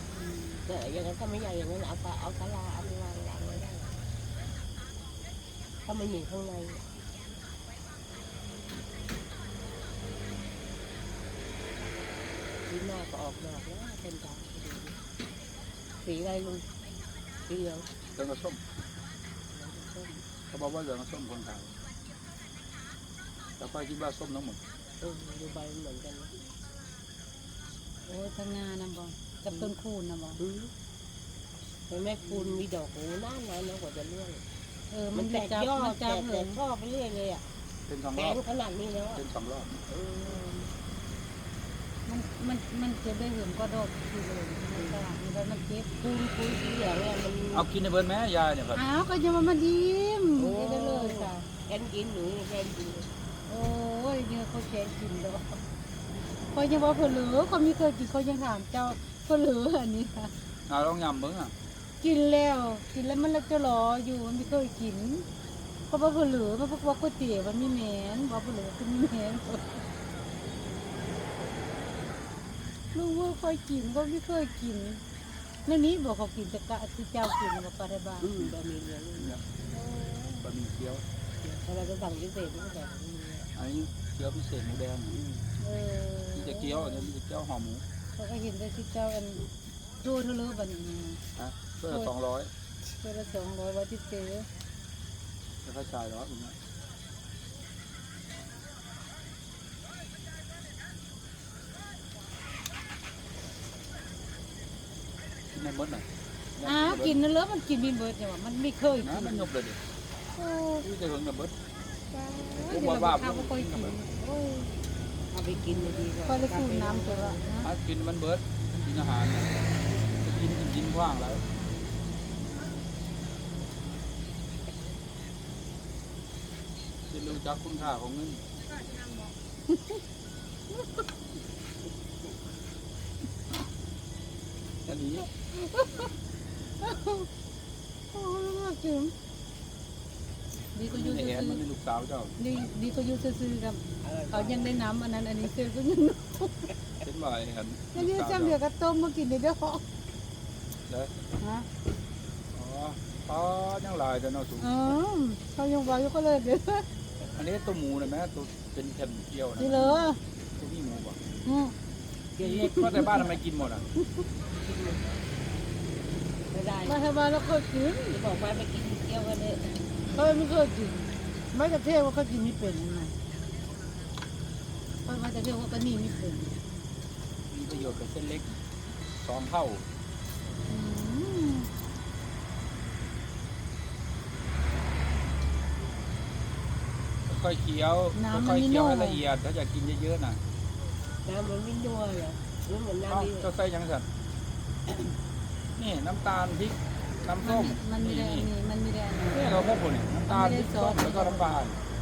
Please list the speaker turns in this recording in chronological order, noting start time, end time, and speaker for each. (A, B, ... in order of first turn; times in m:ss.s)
0:00.1-0:00.6 A
0:00.7-0:04.0 B
0:05.9-0:06.8 B
0:12.7-0:15.0 B
0:16.0-0:16.7 B
0:17.5-0:17.9 B
0:18.2-0:18.6 C
0:19.5-0:20.2 B
0:20.5-0:21.7 C
0:23.6-0:24.6 C
0:25.0-0:26.4 B
0:28.0-0:30.4 A
0:30.4-0:30.7 B
0:31.9-0:34.4 B
0:32.3-0:32.6 A
0:34.9-0:36.6 A
0:35.2-0:37.4 B
0:37.9-0:38.4 C
0:38.2-0:39.2 B
0:39.2-0:39.8 C
0:39.9-0:40.7 B
0:42.1-0:45.9 A
0:44.7-0:45.0 B
0:46.0-0:47.7 B
0:47.5-0:48.8 C
0:48.8-0:51.5 A
0:50.4-0:53.1 B
0:53.5-0:55.6 A
0:56.5-1:00.3 A
1:00.7-1:01.5 C
1:02.0-1:05.3 A
1:05.9-1:09.8 A
1:12.9-1:15.0 A
1:15.6-1:18.3 A
1:18.2-1:19.4 B
1:19.2-1:19.4 C
1:19.7-1:20.4 A
1:20.4-1:21.0 C
1:21.4-1:23.5 B
1:23.6-1:25.2 C
1:25.1-1:25.5 B
1:25.6-1:27.1 A
1:26.3-1:27.8 C
1:28.2-1:29.5 A
1:30.0-1:31.2 A
1:31.4-1:32.5 C
1:32.8-1:34.5 A
1:35.6-1:36.6 C
1:45.5-1:46.1 C
1:46.6-1:47.2 C
1:46.6-1:49.5 A
1:49.0-1:49.8 C
1:50.4-1:50.9 A
1:50.8-1:51.6 C
1:52.1-1:52.8 B
1:52.6-1:54.0 C
1:52.7-1:54.7 A
1:55.3-1:57.5 B
1:56.3-1:57.7 A
1:57.6-1:59.5 C
2:00.2-2:01.4 C
2:07.1-2:08.4 C
2:09.7-2:10.0 A
2:14.9-2:15.3 C
2:15.5-2:16.0 A
2:16.8-2:17.3 A
2:18.1-2:19.1 A
2:20.7-2:21.6 A
2:20.9-2:22.4 C
2:22.4-2:26.7 A
2:24.0-2:24.9 B
2:27.0-2:28.6 C
2:27.9-2:29.8 A
2:31.4-2:31.7 A
2:32.5-2:34.7 C
2:34.6-2:36.9 A
2:37.3-2:41.2 C
2:39.6-2:40.2 A
2:41.4-2:41.8 A
2:42.4-2:43.1 B
2:42.4-2:43.8 C
2:44.6-2:45.2 B
2:46.5-2:47.0 B
2:46.9-2:48.2 A
2:48.1-2:49.7 B
2:50.1-2:53.2 A
2:55.0-2:56.6 A
2:57.5-2:58.5 C
2:59.2-2:59.9 C
3:00.7-3:01.7 A
3:07.3-3:10.4 C
3:08.1-3:09.2 A
3:11.2-3:13.5 B
3:13.1-3:14.1 C
3:15.8-3:18.5 C
3:17.4-3:19.7 A
3:19.3-3:21.8 C
3:20.3-3:21.6 A